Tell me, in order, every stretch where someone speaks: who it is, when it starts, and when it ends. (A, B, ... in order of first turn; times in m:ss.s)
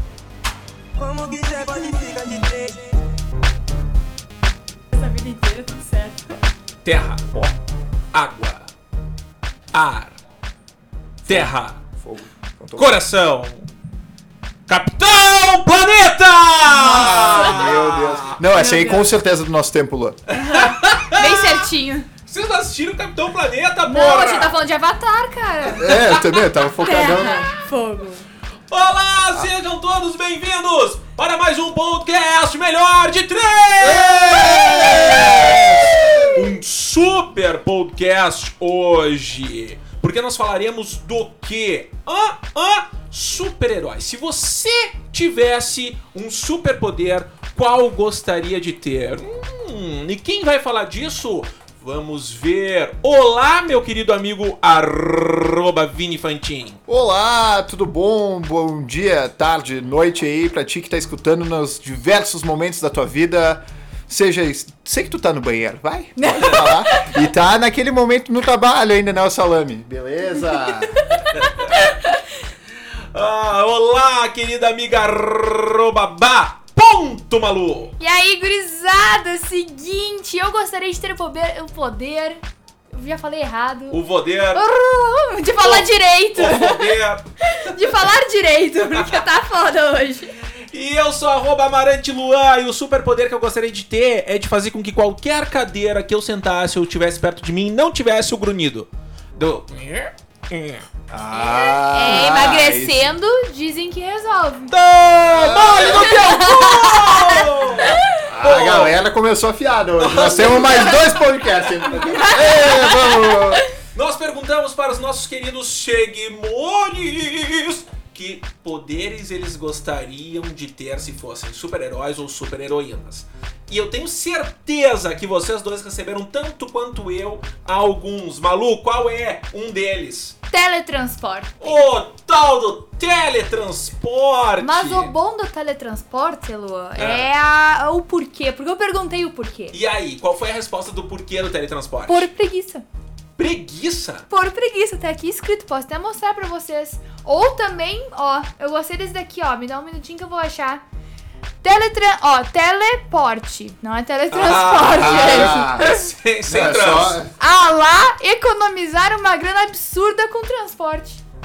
0:01.0-0:02.9 A
0:04.9-0:06.3 B
0:06.8-0:07.5 C
0:08.1-0:08.7 C
0:09.7-0:10.2 C
0:11.2-0:13.0 D
0:11.2-0:11.8 C
0:12.8-0:13.7 C
0:14.7-0:18.4 C
0:16.7-0:17.7 B
0:16.8-0:20.2 D
0:18.5-0:19.1 B
0:20.3-0:21.6 C
0:20.3-0:22.1 B
0:22.3-0:24.6 C
0:23.8-0:26.1 B
0:25.7-0:27.5 D
0:25.8-0:26.4 C
0:26.8-0:28.2 B
0:27.2-0:27.5 C
0:28.7-0:56.8 C
0:33.8-0:36.4 D
0:34.2-0:36.4 B
0:56.9-1:11.0 D
1:06.2-1:07.1 B
1:10.3-1:12.2 B
1:11.3-1:11.9 C
1:13.1-1:17.9 C
1:18.0-1:22.4 B
1:22.9-1:24.0 B
1:23.9-1:24.6 C
1:24.5-1:30.3 B
1:25.6-1:28.1 C
1:28.8-1:29.3 C
1:30.7-1:40.8 C
1:41.1-1:43.1 D
1:41.3-1:44.7 B
1:44.7-1:49.0 C
1:45.2-1:46.3 D
1:45.8-1:48.2 B
1:48.2-1:53.6 D
1:50.0-1:52.7 C
1:50.6-1:51.1 B
1:52.0-1:53.6 B
1:53.9-2:10.4 C
2:10.5-2:11.9 B
2:11.6-2:15.1 C
2:14.6-2:19.8 B
2:17.0-2:17.3 C
2:19.7-2:22.3 C
2:22.0-2:22.8 B
2:23.4-2:24.3 C
2:24.3-2:30.8 B
2:31.6-2:36.0 B
2:34.3-2:37.2 C
2:34.8-2:35.9 D
2:36.5-2:37.3 D
2:37.4-2:41.2 B